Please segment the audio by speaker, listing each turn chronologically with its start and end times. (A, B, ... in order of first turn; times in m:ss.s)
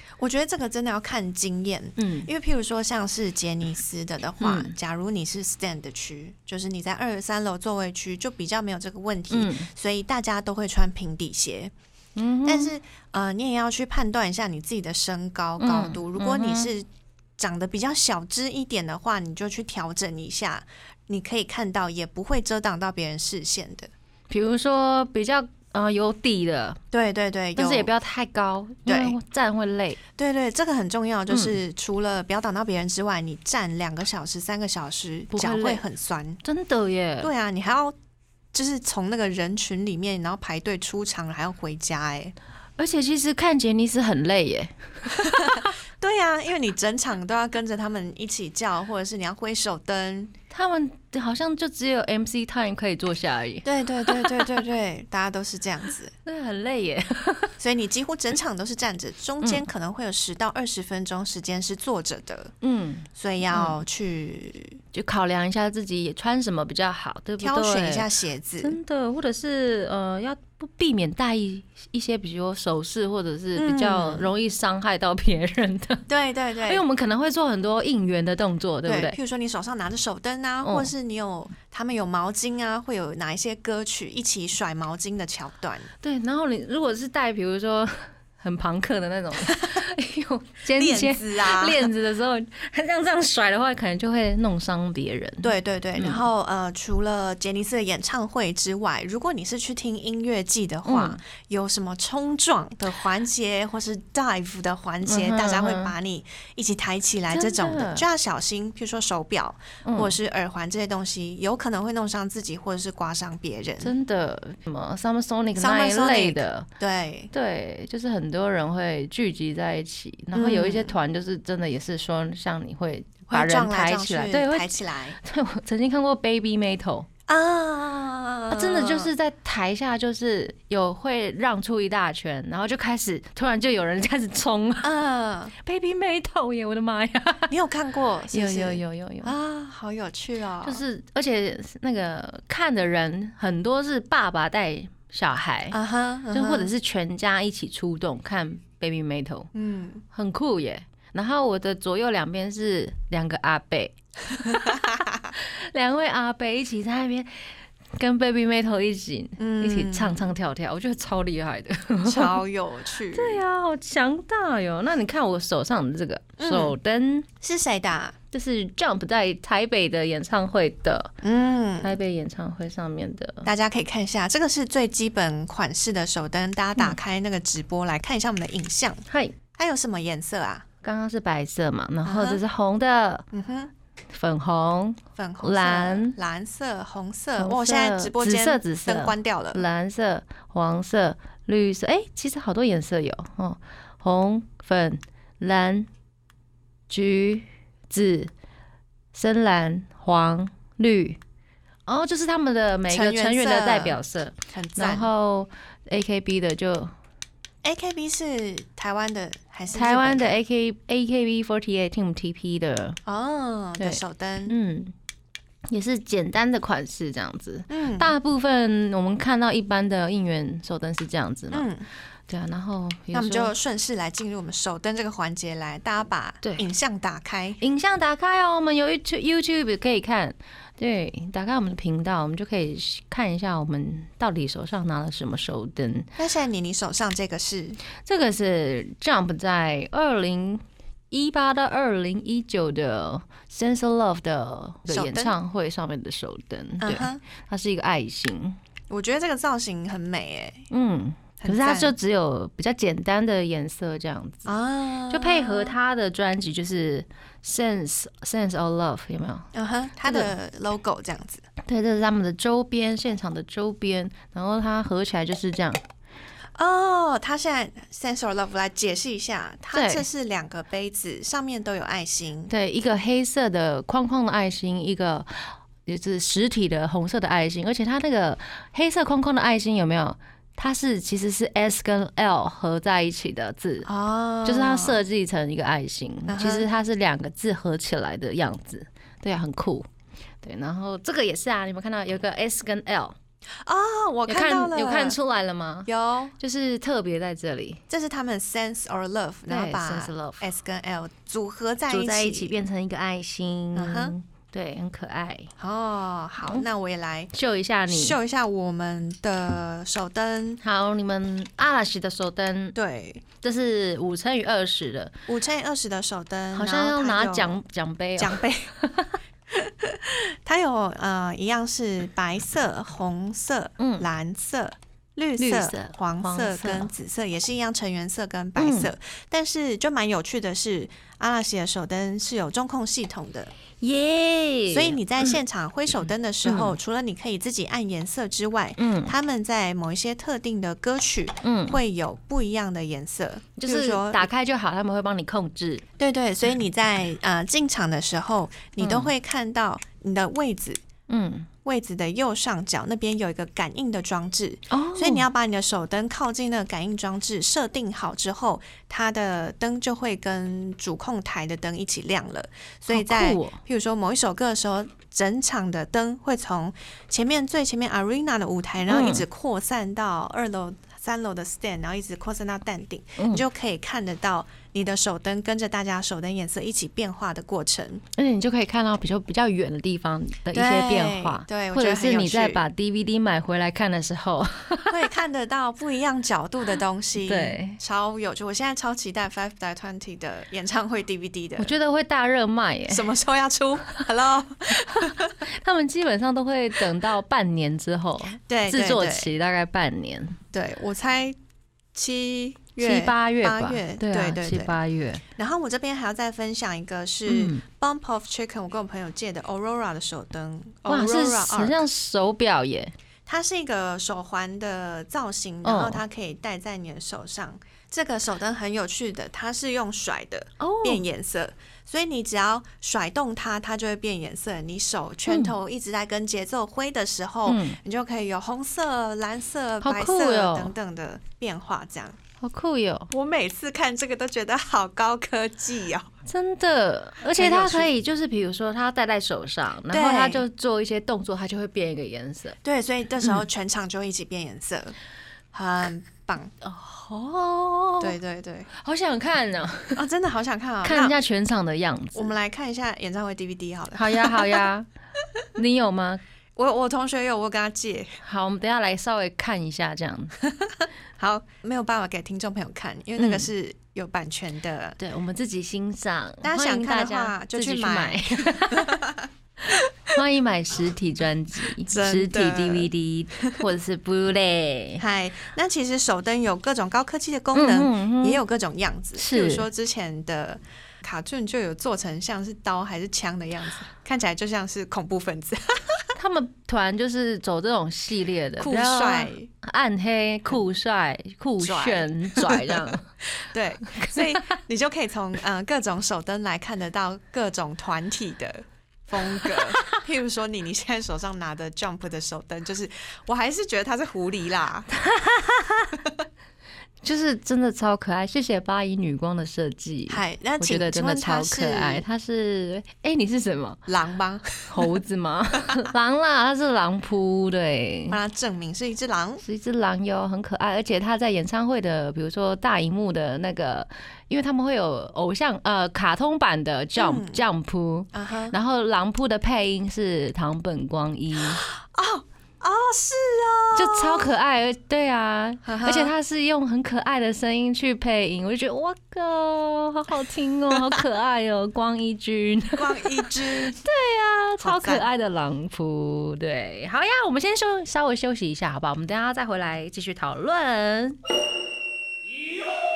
0:00.2-0:11.7 A
0:02.0-0:02.3 B
0:04.4-0:04.7 B
0:09.3-0:09.7 B
0:12.2-0:12.7 B
0:12.4-0:23.9 A
0:15.6-0:16.7 B
0:24.3-0:26.8 B
0:26.9-0:27.9 A
0:27.6-0:30.0 B
0:28.9-0:29.2 A
0:30.2-0:36.4 A
0:31.3-0:31.6 B
0:35.3-0:35.8 B
0:36.4-0:37.3 B
0:37.2-0:38.0 A
0:38.5-0:42.3 A
0:42.8-0:45.6 B
0:45.1-0:50.3 A
0:50.5-0:54.6 B
0:53.6-0:56.1 A
0:56.2-0:57.5 B
0:57.6-1:02.5 A
1:02.6-1:03.8 B
1:03.2-1:04.8 A
1:04.9-1:08.0 B
1:07.4-1:08.8 A
1:08.6-1:16.0 B
1:13.5-1:14.3 A
1:16.1-1:16.8 A
1:16.6-1:19.2 B
1:18.8-1:25.9 A
1:20.6-1:20.9 B
1:26.0-1:36.2 B
1:30.7-1:31.9 A
1:35.4-1:53.9 A
1:40.8-1:41.2 B
1:45.0-1:45.9 B
1:47.3-1:48.0 B
1:49.8-1:50.1 B
1:53.8-1:56.6 B
1:55.6-1:57.3 A
1:57.3-2:07.1 B
2:00.3-2:01.0 A
2:03.3-2:05.2 A
2:07.3-2:09.1 A
2:08.5-2:14.9 B
2:14.8-2:15.5 A
2:15.6-2:17.5 B
2:17.5-2:20.8 A
2:18.3-2:19.3 B
2:20.6-2:25.8 B
2:25.7-2:26.7 A
2:26.3-2:29.5 B
2:29.5-2:30.0 A
2:30.1-2:42.4 B
2:34.4-2:35.3 A
2:39.4-2:40.3 A
2:42.0-2:43.4 A
2:43.1-2:47.3 B
2:46.4-2:46.7 A
2:47.4-2:48.2 A
2:48.3-2:51.1 B
2:51.2-2:52.0 A
2:51.8-2:53.5 B
2:53.4-2:59.0 A
2:59.1-2:59.4 B
2:59.6-3:00.6 A
3:00.8-3:03.2 B
3:02.0-3:02.4 A
3:03.3-3:03.7 A
3:04.1-3:06.2 B
3:05.2-3:09.6 A
3:07.4-3:15.9 B
3:16.9-3:18.3 B
3:19.1-3:21.2 B
3:21.9-3:26.9 B
3:22.9-3:25.1 A
3:27.6-3:30.4 A
3:29.7-3:33.0 B
3:33.0-3:34.5 A
3:33.8-3:34.9 B
3:35.7-3:41.7 B
3:37.7-3:38.1 A
3:41.5-3:41.8 A
3:42.3-3:43.5 B
3:43.1-3:47.6 A
3:47.6-3:56.1 B
3:56.2-3:57.8 A
3:58.0-4:08.6 B
4:04.9-4:05.3 A
4:06.8-4:07.2 A
4:08.9-4:10.7 A
4:10.7-4:14.5 B
4:11.4-4:11.9 A
4:14.4-4:15.8 A
4:15.1-4:19.5 B
4:19.5-4:21.4 A
4:20.0-4:20.3 B
4:21.6-4:25.8 B
4:26.6-4:32.5 A
4:29.7-4:30.0 B
4:32.5-4:43.9 B
4:43.8-4:45.0 A
4:44.4-4:49.9 B
4:46.3-4:46.7 A
4:50.4-4:53.2 B
4:53.6-4:55.2 A
4:54.3-4:57.8 B
4:55.9-4:56.4 A
4:57.9-5:02.5 A
4:59.5-5:00.4 B
5:01.9-5:05.5 B
5:03.7-5:04.1 A
5:05.6-5:07.3 A
5:07.3-5:08.2 B
5:07.9-5:10.6 A
5:10.6-5:12.8 B
5:12.7-5:13.2 A
5:13.4-5:15.1 B
5:15.3-5:17.6 A
5:16.5-5:19.1 B
5:18.2-5:18.7 A
5:19.5-5:33.5 A
5:23.8-5:24.1 B
5:25.4-5:26.9 B
5:28.6-5:28.9 B
5:33.8-5:35.4 B
5:34.7-5:44.3 A
5:36.4-5:36.7 B
5:38.8-5:39.1 B
5:41.4-5:41.8 B
5:43.6-5:45.8 B
5:46.0-5:50.8 A
5:48.8-5:49.1 B
5:51.1-5:51.5 B
5:51.6-6:18.0 A
5:54.7-5:55.2 B
6:02.9-6:03.6 B
6:08.9-6:09.2 B
6:13.2-6:13.4 B
6:18.1-6:25.0 B
6:20.5-6:22.6 A
6:24.9-6:31.7 A
6:27.2-6:27.8 B
6:31.6-6:33.1 B
6:32.9-6:35.4 A
6:34.7-6:40.4 B
6:38.5-6:39.3 A
6:40.5-6:41.4 A
6:41.9-6:44.8 A
6:42.8-6:45.2 B
6:45.4-6:51.8 A
6:47.3-6:47.6 B
6:50.9-6:52.9 B
6:53.2-7:12.2 A
6:55.6-6:56.0 B
7:00.6-7:01.0 B
7:05.3-7:05.5 B
7:07.4-7:07.8 B
7:09.8-7:10.7 B
7:12.4-7:13.1 B
7:13.1-7:16.1 A
7:16.2-7:22.6 B
7:17.3-7:17.9 A
7:19.9-7:20.4 A
7:22.6-7:24.9 A
7:25.5-7:26.5 A
7:26.6-7:28.1 B
7:28.0-7:28.7 A
7:28.7-7:30.0 B
7:29.9-7:31.2 A
7:30.8-7:32.3 B
7:32.1-7:34.7 A
7:33.9-7:34.9 B
7:35.5-7:36.2 B
7:36.6-7:38.2 A
7:38.2-7:40.4 B
7:40.4-7:45.0 A
7:43.2-7:43.5 B
7:45.0-7:49.0 B
7:46.4-7:50.2 A
7:50.1-7:55.0 B
7:51.7-7:53.6 A
7:55.0-8:06.1 A
7:57.5-7:58.4 B
7:59.2-7:59.7 B
8:06.2-8:13.1 B
8:08.6-8:09.5 A
8:11.6-8:24.9 A
8:14.0-8:14.2 B
8:19.4-8:20.0 B
8:24.9-8:26.0 B
8:27.0-8:33.8 B
8:30.1-8:32.0 A
8:33.9-8:34.9 A
8:34.7-8:38.2 B
8:38.1-8:39.4 A
8:39.4-8:51.6 B
8:47.0-8:47.4 A
8:48.1-8:48.5 A
8:51.4-8:54.3 A
8:53.7-9:11.2 B
8:55.6-8:56.1 A
9:00.7-9:01.0 A
9:02.8-9:03.8 A
9:04.6-9:05.1 A